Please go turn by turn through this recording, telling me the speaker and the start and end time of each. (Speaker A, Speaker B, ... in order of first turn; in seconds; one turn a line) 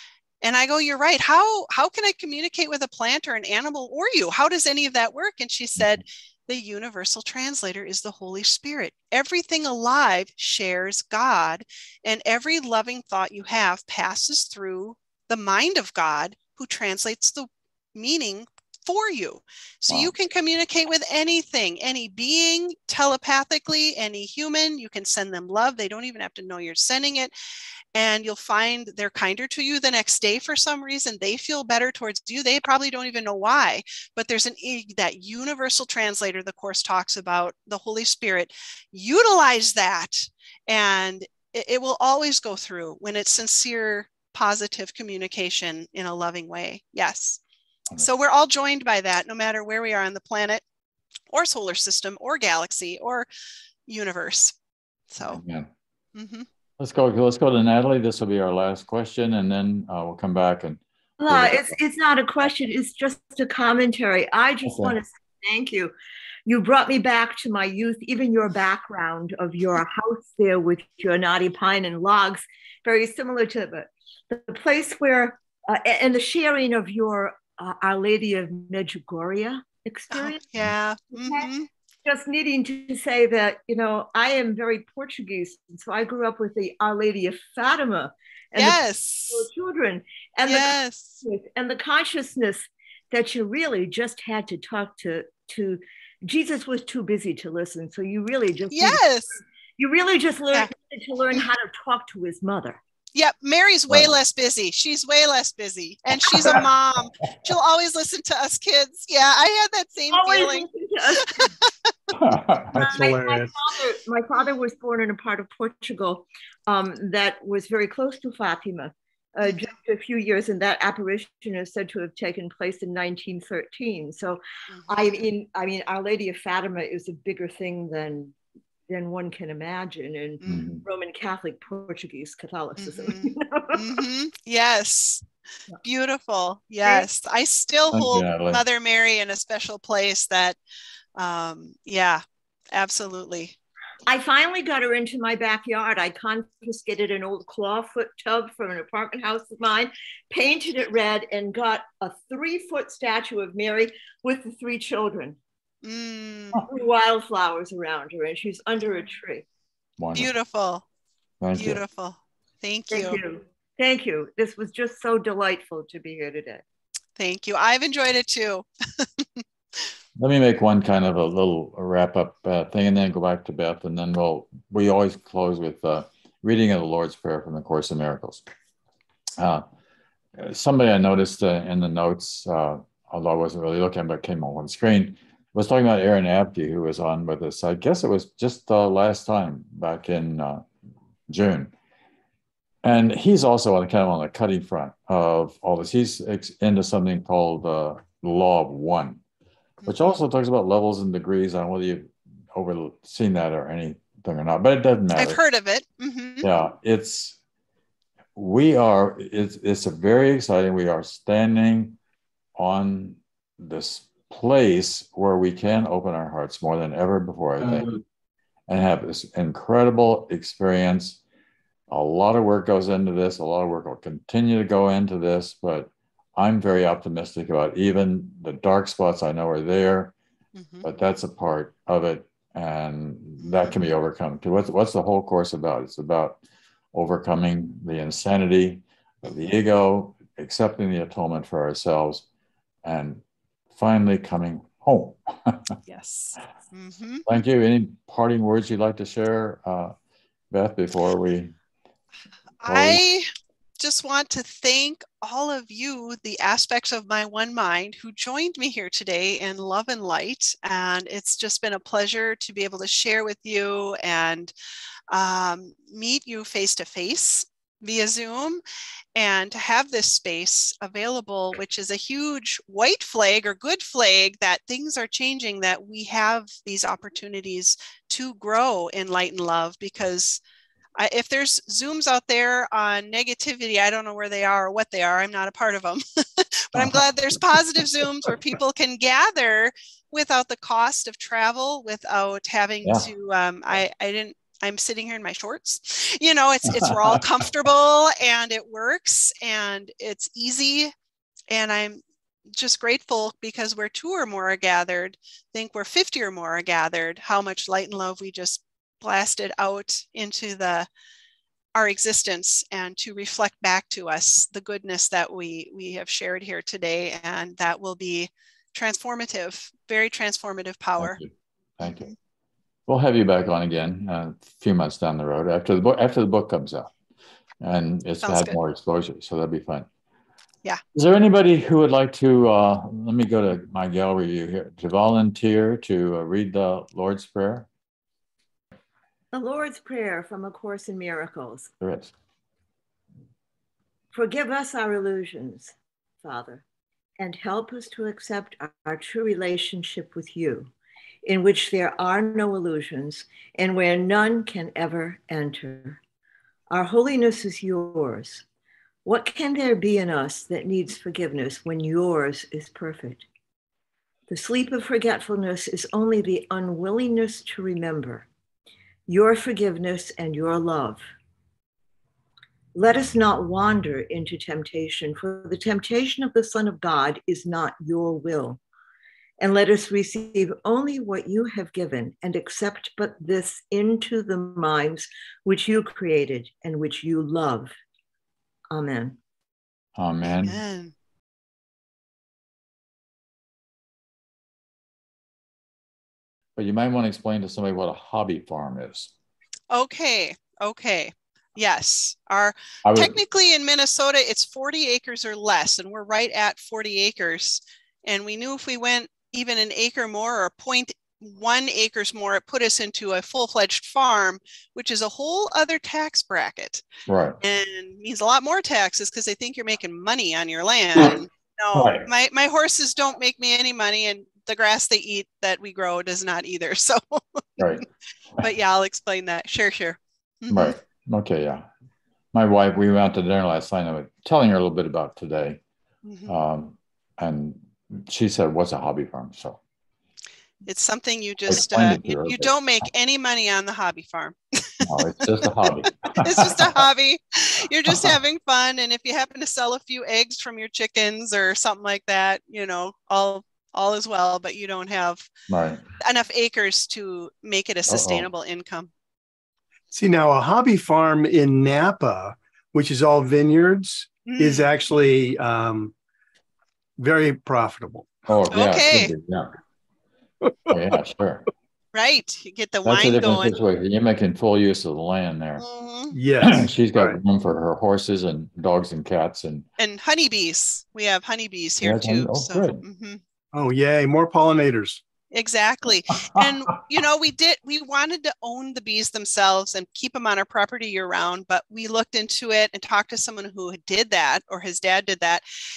Speaker A: 0.4-27.3
Speaker A: 27.9-47.4
Speaker A: 48.0-50.6
Speaker A: 51.3-53.3
Speaker A: 53.9-54.5
Speaker A: 55.1-55.4
Speaker B: 55.2-55.7
Speaker A: 56.1-56.5
Speaker B: 56.8-61.8
Speaker C: 61.2-65.9
Speaker B: 64.6-65.0
Speaker C: 66.5-80.4
Speaker A: 80.1-81.7
Speaker C: 81.1-81.5
Speaker C: 82.0-102.8
Speaker A: 88.5-89.5
Speaker A: 90.4-91.1
Speaker A: 98.7-99.4
Speaker A: 103.1-110.7
Speaker B: 103.9-104.1
Speaker C: 110.1-111.5
Speaker B: 112.2-112.9
Speaker D: 112.7-113.5
Speaker C: 112.7-128.3
Speaker C: 128.9-134.0
Speaker A: 130.4-130.7
Speaker B: 130.5-130.8
Speaker A: 132.8-135.2
Speaker A: 135.8-140.6
Speaker B: 137.9-138.6
Speaker A: 141.2-142.2
Speaker A: 142.7-143.6
Speaker C: 144.1-155.4
Speaker A: 155.8-156.6
Speaker C: 156.6-159.5
Speaker B: 160.0-160.3
Speaker A: 160.1-160.8
Speaker B: 161.4-161.8
Speaker A: 161.5-163.2
Speaker C: 162.9-166.6
Speaker A: 167.2-169.4
Speaker B: 170.2-178.4
Speaker B: 179.4-179.6
Speaker B: 180.4-190.7
Speaker B: 191.3-191.7
Speaker B: 192.8-199.2
Speaker A: 199.8-200.2
Speaker B: 199.9-205.4
Speaker A: 205.2-206.5
Speaker B: 206.4-207.4
Speaker B: 208.3-212.0
Speaker B: 212.6-217.9
Speaker B: 218.7-221.2
Speaker B: 221.9-230.1
Speaker A: 230.6-230.9
Speaker B: 230.8-236.4
Speaker A: 233.4-233.8
Speaker B: 236.9-242.3
Speaker B: 242.8-243.2
Speaker B: 243.7-245.8
Speaker A: 245.9-247.2
Speaker B: 247.3-249.9
Speaker B: 250.5-251.6
Speaker A: 252.6-253.3
Speaker B: 252.6-253.0
Speaker A: 253.8-264.5
Speaker A: 265.1-268.6
Speaker A: 269.1-280.4
Speaker A: 281.0-300.9
Speaker B: 286.7-288.4
Speaker B: 296.7-297.2
Speaker A: 301.5-310.9
Speaker A: 311.7-321.2
Speaker B: 321.0-322.1
Speaker A: 321.8-322.1
Speaker B: 322.9-326.9
Speaker B: 327.6-329.9
Speaker A: 328.2-328.6
Speaker B: 330.9-337.7
Speaker C: 339.3-341.7
Speaker B: 341.8-342.1
Speaker C: 344.1-346.6
Speaker C: 347.2-350.7
Speaker C: 351.2-356.0
Speaker C: 356.7-358.4
Speaker C: 359.1-363.2
Speaker C: 364.3-368.3
Speaker C: 369.1-371.0
Speaker C: 372.7-378.6
Speaker C: 379.4-387.7
Speaker C: 388.7-389.2
Speaker B: 389.9-390.6
Speaker A: 390.3-390.9
Speaker B: 396.6-399.1
Speaker A: 399.7-416.8
Speaker B: 402.8-403.1
Speaker B: 417.1-417.4
Speaker A: 417.4-427.8
Speaker B: 421.7-422.1
Speaker A: 428.4-430.8
Speaker B: 430.5-431.6
Speaker B: 432.3-435.6
Speaker A: 436.1-436.3
Speaker B: 436.3-439.6
Speaker A: 440.7-444.8
Speaker B: 441.5-442.5
Speaker B: 444.8-446.8
Speaker A: 446.2-455.3
Speaker B: 447.9-448.1
Speaker B: 455.5-455.8
Speaker A: 456.0-458.9
Speaker B: 457.9-458.3
Speaker D: 459.9-465.9
Speaker A: 464.3-464.7
Speaker D: 467.0-468.1
Speaker B: 468.3-469.5
Speaker A: 468.5-469.1
Speaker D: 470.4-470.8
Speaker B: 470.7-471.4
Speaker A: 471.9-473.5
Speaker B: 472.8-475.6
Speaker A: 475.6-476.1
Speaker D: 476.1-477.2
Speaker B: 476.4-479.6
Speaker A: 479.8-483.2
Speaker B: 481.8-482.8
Speaker D: 483.5-485.0
Speaker A: 485.3-495.4